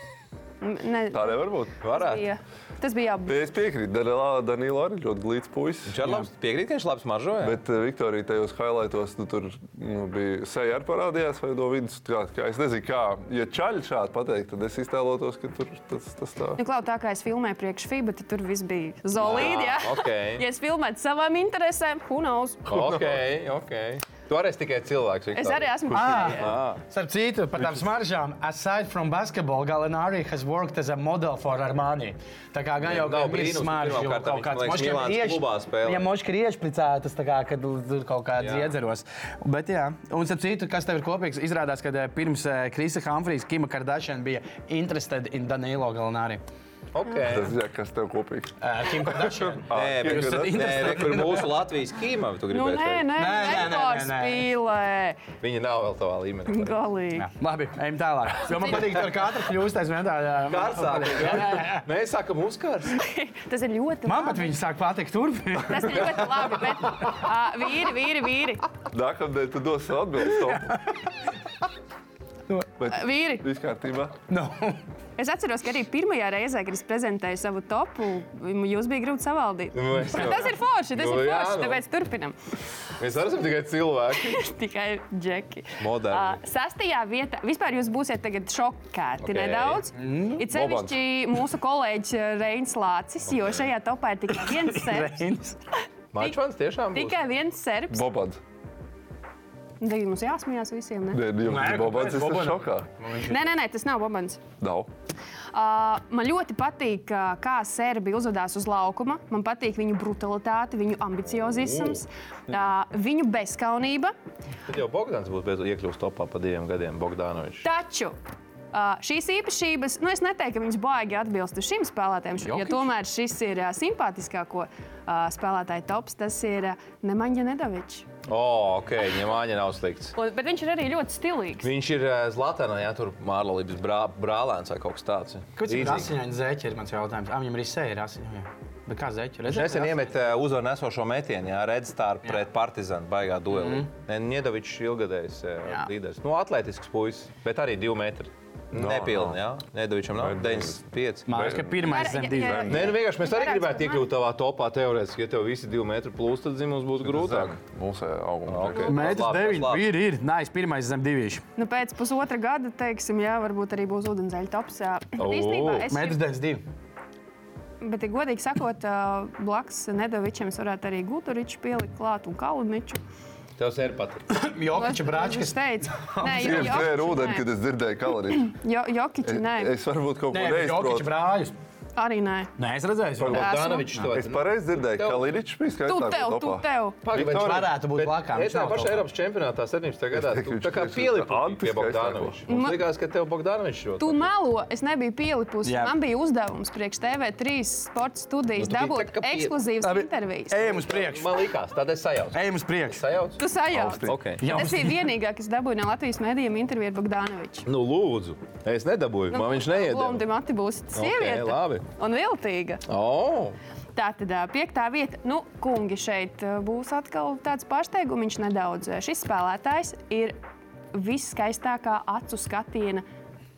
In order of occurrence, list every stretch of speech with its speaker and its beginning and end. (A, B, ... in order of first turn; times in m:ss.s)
0:00.6-0:03.4 A
0:01.1-0:01.7 B
0:01.8-0:02.3 C
0:03.3-0:06.0 B
0:05.9-0:07.6 C
0:07.4-0:16.6 B
0:16.6-0:22.8 A
0:19.2-0:20.4 C
0:22.7-0:26.8 C
0:22.8-0:23.2 B
0:25.3-0:26.6 A
0:25.9-0:26.4 B
0:25.9-0:46.4 D
0:27.6-0:27.9 B
0:32.8-0:36.1 C
0:38.4-0:38.7 C
0:46.9-0:47.5 C
0:47.3-0:51.3 B
0:48.6-0:51.6 D
0:49.7-0:53.1 C
0:52.5-0:55.2 A
0:53.2-0:54.5 D
0:55.4-0:56.8 C
0:56.5-0:57.3 A
0:57.2-1:01.8 D
1:00.5-1:03.0 C
1:02.9-1:04.5 A
1:04.1-1:06.3 D
1:05.6-1:08.6 A
1:08.9-1:10.8 B
1:10.5-1:10.8 D
1:12.8-1:14.2 B
1:12.8-1:13.4 A
1:14.3-1:14.8 D
1:15.2-1:22.4 A
1:19.7-1:21.8 C
1:23.0-1:24.4 C
1:24.2-1:35.2 A
1:25.8-1:26.4 C
1:29.2-1:29.9 C
1:30.0-1:30.4 D
1:30.5-1:31.0 B
1:33.3-1:33.7 C
1:34.4-1:35.6 D
1:36.1-1:37.2 C
1:36.9-1:38.0 A
1:37.9-1:38.4 B
1:39.8-1:41.2 A
1:41.1-1:42.9 B
1:41.4-1:43.5 D
1:43.3-1:44.4 A
1:44.6-1:44.9 B
1:45.5-1:54.1 A
1:51.2-1:52.0 C
1:54.7-1:57.7 C
1:57.6-1:58.2 A
1:58.7-2:08.1 A
2:08.3-2:10.2 C
2:10.2-2:11.7 A
2:11.6-2:16.1 C
2:15.6-2:20.0 D
2:19.5-2:31.3 C
2:23.5-2:23.9 D
2:28.7-2:29.4 B
2:30.1-2:33.0 B
2:31.3-2:32.7 D
2:31.8-2:34.1 A
2:32.7-2:37.6 C
2:37.0-2:39.0 B
2:38.5-2:39.9 C
2:38.9-2:41.4 D
2:41.6-2:46.2 A
2:45.2-2:45.9 C
2:45.9-2:46.6 D
2:47.8-2:53.0 A
2:53.6-2:54.3 C
2:54.3-2:56.9 D
2:54.7-2:57.5 A
2:56.3-2:58.5 B
2:58.3-2:59.7 A
2:59.2-3:01.1 B
3:00.3-3:01.6 D
3:02.0-3:02.5 A
3:02.6-3:04.0 D
3:03.2-3:03.5 B
3:03.3-3:05.4 C
3:03.3-3:03.9 A
3:04.1-3:07.7 B
3:05.9-3:07.0 A
3:07.0-3:14.3 C
3:07.2-3:09.1 D
3:10.1-3:12.4 B
3:12.5-3:12.8 A
3:14.0-3:20.8 A
3:15.6-3:16.0 D
3:18.6-3:19.6 C
3:19.8-3:21.4 D
3:20.6-3:23.4 C
3:22.3-3:23.0 D
3:23.4-3:27.7 A
3:23.7-3:24.2 B
3:24.0-3:24.5 C
3:24.4-3:25.1 D
3:27.7-3:30.2 C
3:29.3-3:32.8 A
3:30.9-3:31.9 C
3:32.9-3:33.6 C
3:34.0-3:40.4 A
3:40.9-3:43.0 A